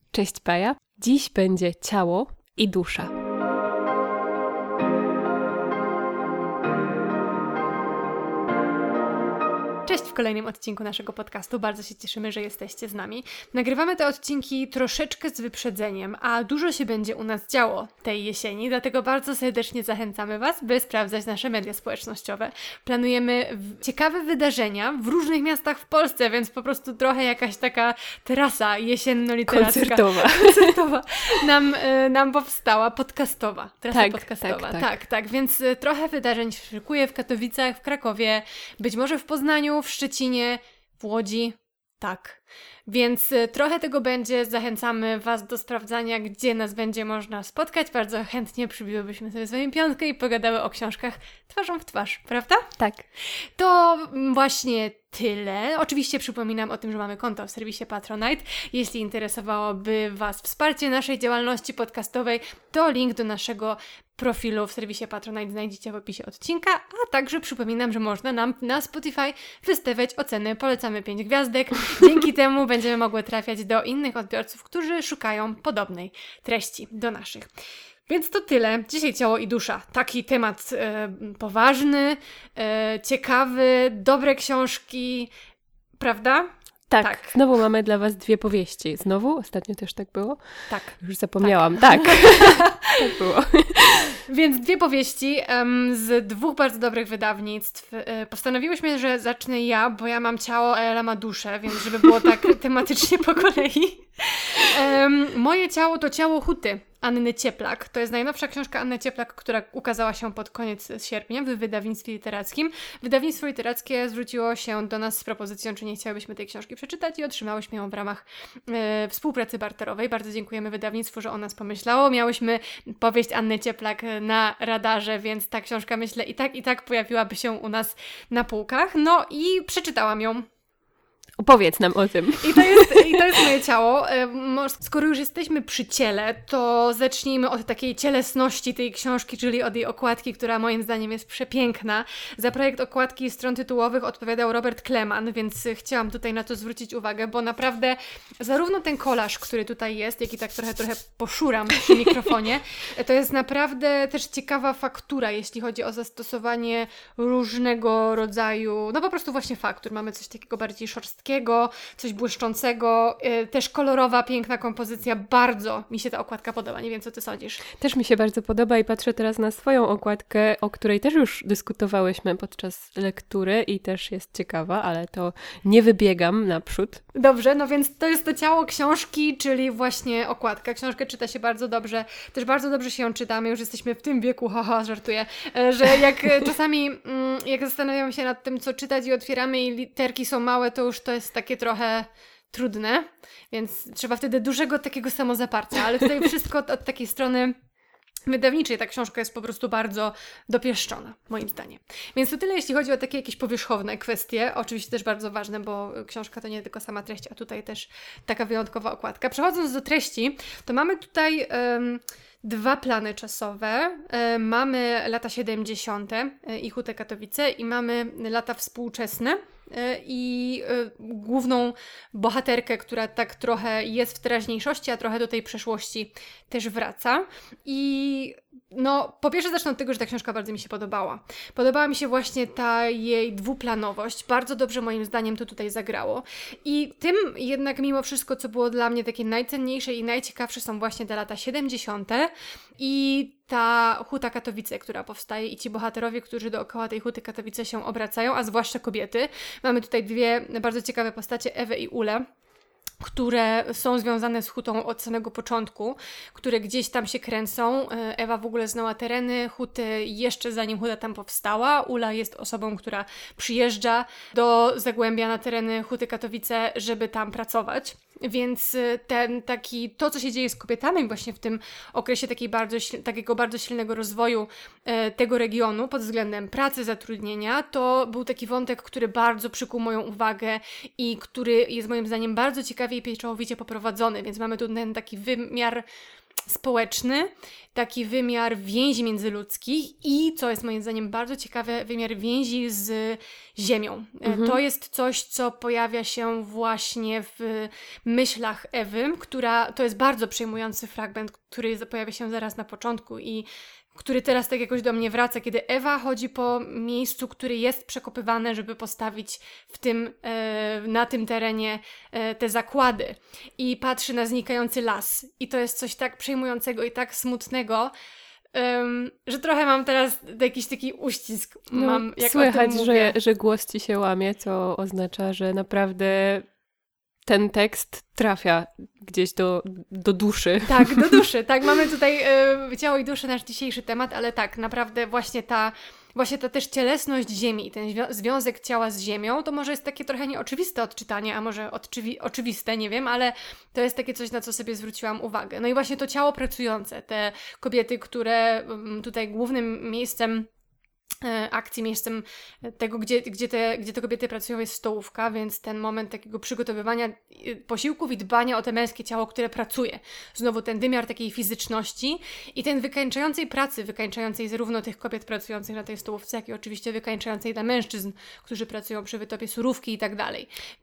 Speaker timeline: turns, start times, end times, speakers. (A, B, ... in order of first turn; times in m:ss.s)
0:00.1-0:03.1 A
0:09.9-0:52.7 B
0:29.5-0:30.8 A
0:33.9-0:34.9 A
0:52.8-0:53.0 A
0:53.6-1:17.5 B
1:18.1-1:25.3 B
1:26.0-1:27.4 B
1:26.9-1:34.2 A
1:30.7-1:33.1 B
1:34.2-2:10.5 B
2:11.4-2:13.4 A
2:12.4-2:47.6 B
2:47.8-2:57.0 A
2:57.1-3:17.6 B
3:18.3-4:12.3 B
4:13.0-4:45.8 B
4:46.5-5:17.9 B
4:54.2-4:54.6 A
5:18.5-5:23.2 B
5:21.7-5:26.4 A
5:27.2-5:31.2 A
5:30.7-5:50.5 B
5:51.2-6:10.5 B